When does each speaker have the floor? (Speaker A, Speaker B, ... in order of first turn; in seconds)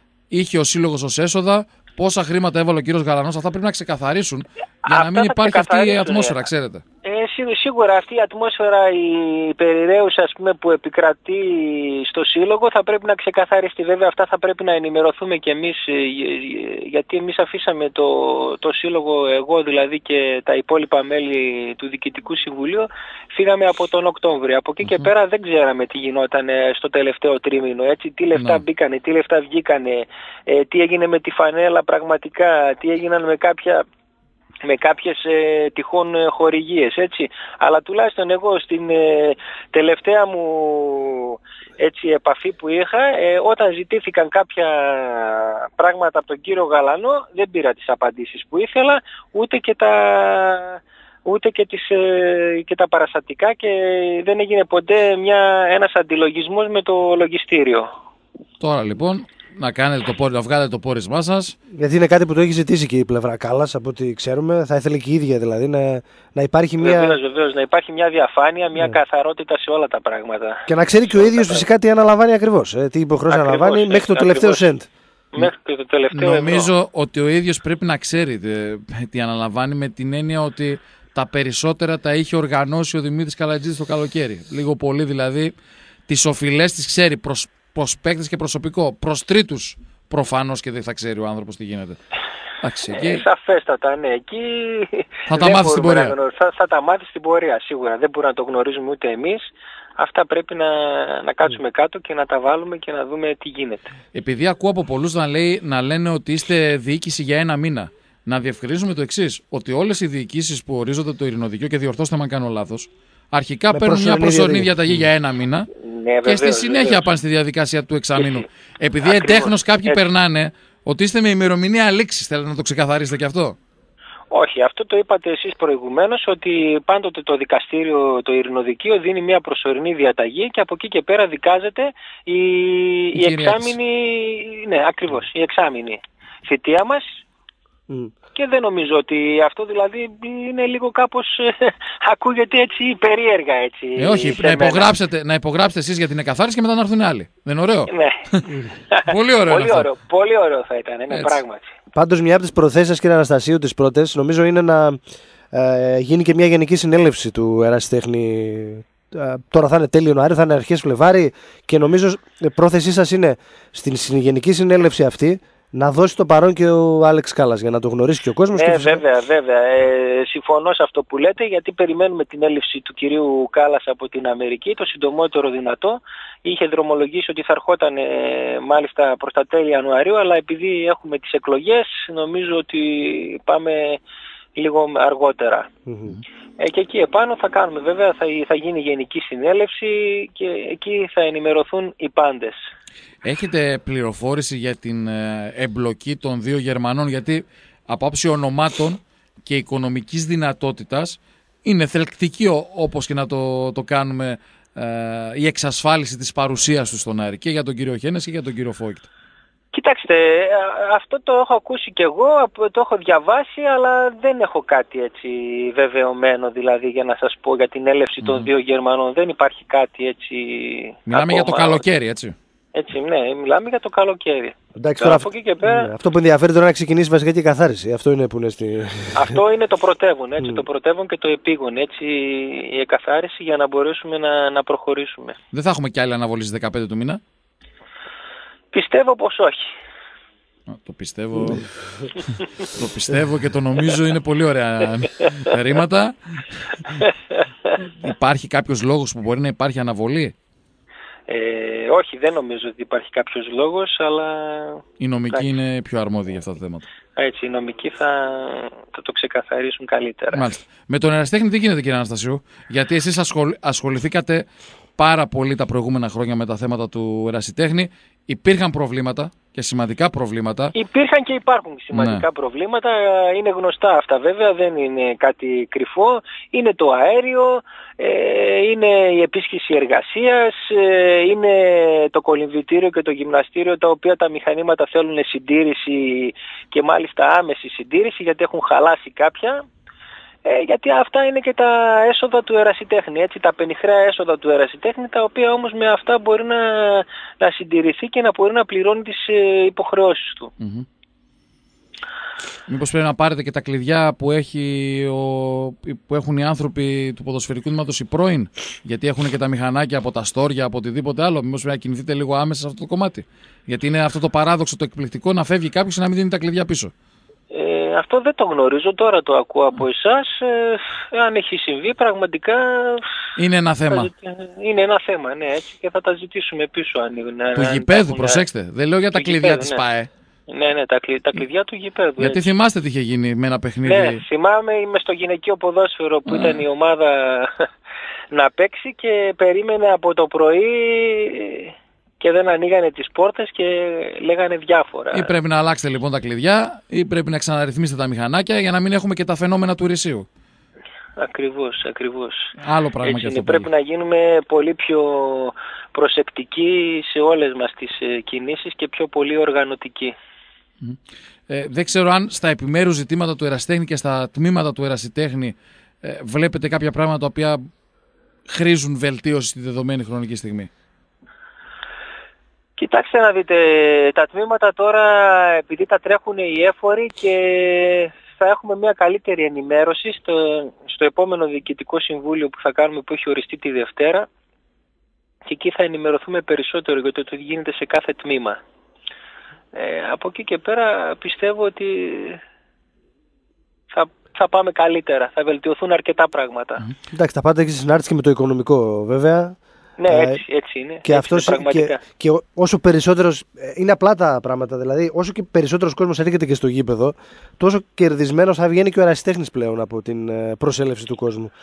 Speaker A: 0.3-6.8, 28.4-28.6, 58.6-61.5, 76.1-85.5, 86.1-92.0, 92.6-93.2, 95.3-96.1, 104.1-115.7, 116.2-123.5, 133.1-133.7, 143.9-149.9, 151.1-151.4, 193.2-209.1, 218.2-218.5, 221.1-222.3, 235.5-237.2, 240.7-246.9, 247.8-250.3, 255.0-256.8, 260.3-264.4, 265.0-270.7, 271.9-272.2, 300.6-300.8, 302.7-316.9, 323.4-324.1, 327.5-330.1, 332.2-334.2, 336.3-336.6, 345.1-350.2, 352.6-353.7, 361.5-367.6, 368.5-370.7
Speaker B: 4.8-6.4, 7.0-33.8, 34.6-57.9, 66.8-71.7, 73.3-74.7, 75.3-76.7, 92.9-103.9, 115.8-117.1, 118.2-118.4, 119.0-120.0, 124.3-137.2, 138.3-144.9, 147.9-148.2, 148.9-151.7, 168.5-184.0, 184.5-185.7, 186.6-192.6, 209.7-221.8, 222.7-225.9, 229.1-235.4, 238.7-239.7, 246.8-247.8, 251.3-255.5, 257.1-260.5, 270.7-289.6, 290.4-300.5, 317.5-323.1, 323.9-328.4, 329.1-329.8, 330.5-332.5, 333.8-337.6, 338.3-345.3, 351.2-352.5, 353.0-360.1, 372.8-384.3, 385.4-388.6, 389.7-392.4, 393.9-396.9, 400.0-402.0
Speaker C: 61.7-67.2, 70.7-74.9, 113.7-114.7, 151.9-155.0, 155.5-169.0, 185.9-186.2, 224.8-229.3, 397.1-400.4, 401.0-411.5